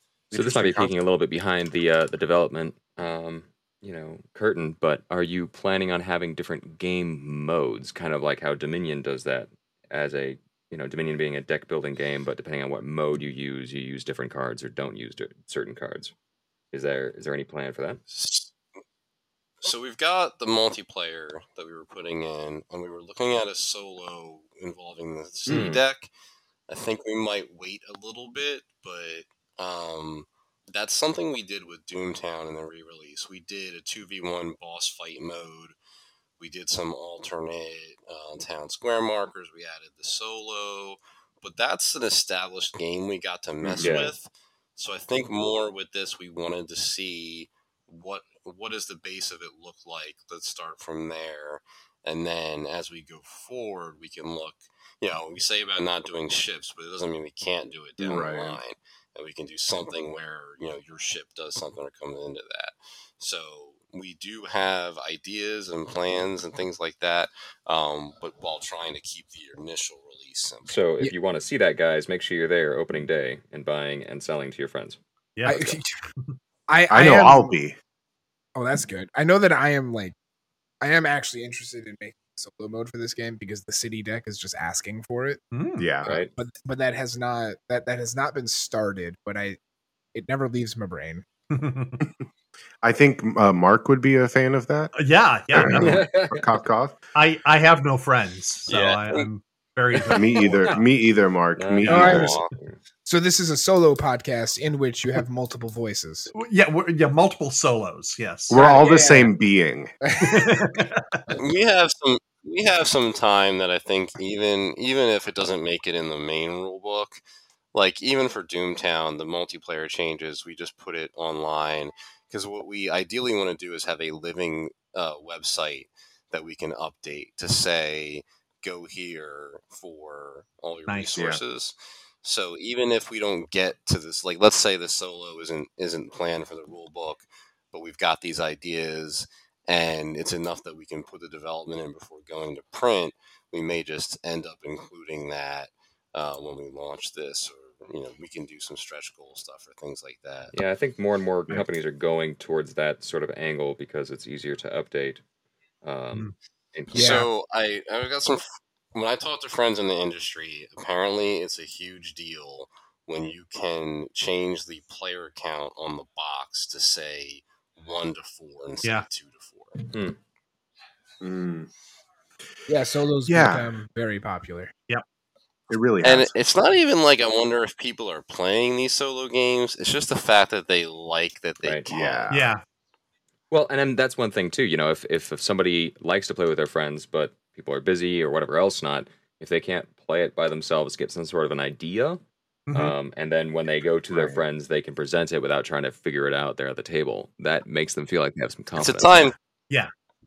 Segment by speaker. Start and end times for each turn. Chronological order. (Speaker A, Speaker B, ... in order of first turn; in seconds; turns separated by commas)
Speaker A: 0.3-0.9, Speaker B: 0.3-16.1, Speaker B: 16.7-18.0, Speaker C: 18.1-18.5, Speaker C: 19.6-26.1, Speaker B: 25.5-25.8, Speaker C: 26.7-35.8, Speaker C: 36.4-70.8, Speaker A: 43.6-43.9, Speaker B: 43.8-44.1, Speaker A: 58.0-58.6, Speaker B: 70.7-75.8, Speaker D: 75.4-75.7, Speaker E: 75.5-76.0, Speaker E: 76.7-77.5, Speaker A: 76.9-77.8, Speaker E: 78.6-80.2, Speaker E: 80.8-85.4, Speaker D: 85.5-85.9, Speaker A: 85.8-86.2, Speaker B: 86.0-86.3, Speaker E: 86.4-89.6, Speaker E: 90.1-91.2, Speaker D: 91.5-92.0, Speaker A: 92.8-94.9, Speaker D: 95.0-96.1, Speaker A: 95.5-97.0, Speaker B: 95.7-96.5, Speaker D: 97.2-100.8, Speaker C: 98.7-99.2, Speaker A: 100.1-102.3, Speaker B: 101.6-102.8, Speaker E: 101.9-102.3, Speaker D: 101.9-102.4, Speaker C: 102.0-102.5, Speaker E: 103.1-106.3, Speaker D: 106.3-108.6, Speaker A: 108.5-110.0, Speaker E: 108.5-109.3, Speaker E: 110.0-110.5, Speaker D: 110.2-111.3, Speaker C: 111.3-117.2, Speaker C: 117.7-150.5, Speaker D: 130.9-131.3, Speaker B: 150.5-155.2, Speaker B: 155.8-157.1, Speaker C: 156.9-169.8, Speaker E: 156.9-157.3, Speaker B: 169.9-170.2, Speaker A: 171.2-171.7, Speaker E: 172.7-174.7, Speaker A: 173.3-173.7, Speaker A: 175.7-176.3, Speaker C: 176.0-182.3, Speaker A: 181.9-182.5, Speaker D: 182.3-182.6, Speaker B: 183.5-192.2, Speaker D: 192.7-192.9, Speaker B: 192.8-199.3, Speaker A: 194.1-194.4, Speaker C: 198.8-199.3